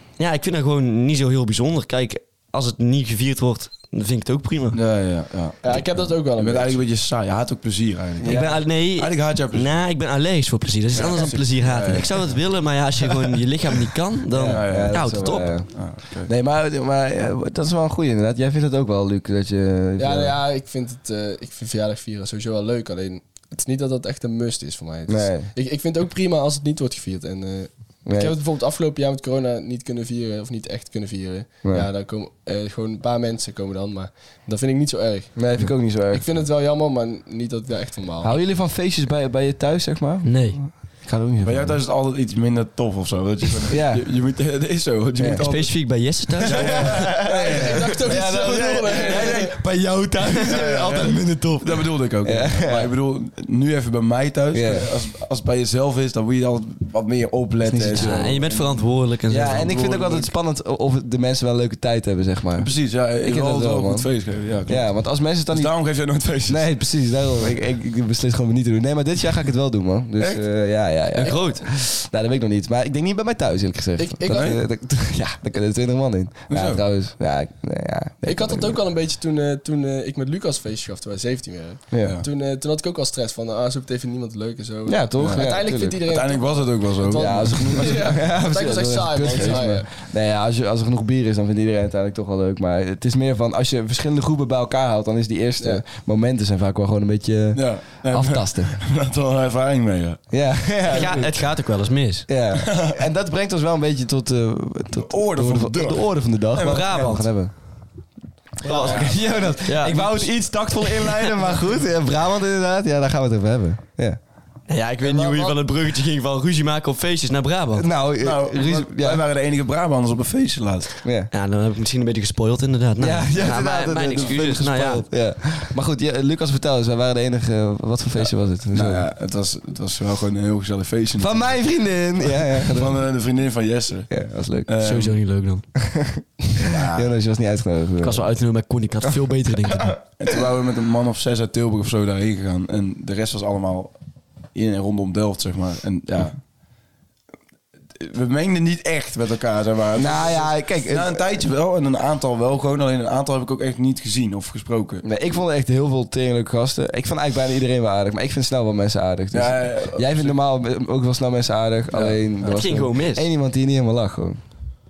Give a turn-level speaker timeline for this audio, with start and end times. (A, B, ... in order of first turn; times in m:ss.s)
0:00.2-0:04.8 A
0:04.7-0:09.8 B
0:05.6-0:06.8 C
0:08.2-0:08.5 D
0:08.3-0:15.6 A
0:10.9-0:12.4 B
0:14.3-0:20.3 D
0:14.4-0:16.3 B
0:20.0-0:35.4 C
0:25.1-0:25.5 D
0:28.0-0:28.4 D
0:35.4-0:36.2 D
0:36.1-0:38.3 C
0:38.2-0:41.8 D
0:40.2-0:40.6 A
0:41.4-0:49.5 B
0:43.7-0:44.0 D
0:45.2-0:45.4 D
0:45.4-0:46.9 A
0:46.4-0:52.9 D
0:47.2-0:49.5 C
0:49.1-0:49.6 A
0:50.2-0:51.6 A
0:50.3-0:58.8 B
0:54.5-0:54.9 D
0:57.6-0:58.4 D
0:57.9-0:59.7 A
0:59.3-1:04.1 D
0:59.5-1:00.3 B
1:02.6-1:06.8 B
1:04.6-1:05.7 D
1:06.5-1:18.8 D
1:10.2-1:10.4 B
1:11.2-1:11.6 A
1:14.0-1:14.5 C
1:14.3-1:14.6 B
1:16.5-1:16.8 B
1:18.2-1:29.8 C
1:21.9-1:22.2 D
1:22.0-1:22.2 B
1:24.8-1:26.0 D
1:25.2-1:28.1 B
1:27.1-1:38.8 D
1:37.5-1:40.2 B
1:40.3-1:41.4 D
1:40.9-1:42.2 A
1:42.3-1:47.5 D
1:42.6-1:43.0 B
1:44.9-1:47.1 B
1:46.6-1:47.3 A
1:48.6-1:50.3 A
1:48.8-1:54.2 D
1:48.8-1:49.6 B
1:50.8-1:51.3 A
1:54.7-1:57.9 A
1:55.0-1:55.5 C
1:57.7-1:59.2 D
1:58.2-2:00.9 B
2:01.0-2:01.3 D
2:01.3-2:05.1 A
2:03.0-2:09.0 D
2:08.2-2:11.6 B
2:11.2-2:13.0 D
2:12.6-2:14.1 B
2:14.1-2:14.7 D
2:14.7-2:15.2 B
2:14.8-2:15.6 A
2:15.8-2:18.2 D
2:16.6-2:17.1 B
2:18.0-2:20.0 A
2:19.7-2:19.9 D
2:20.2-2:23.9 B
2:24.5-2:26.4 B
2:27.9-2:35.0 B
2:29.9-2:31.2 D
2:35.0-2:44.4 D
2:39.3-2:40.3 B
2:41.9-2:42.6 B
2:42.4-2:43.3 A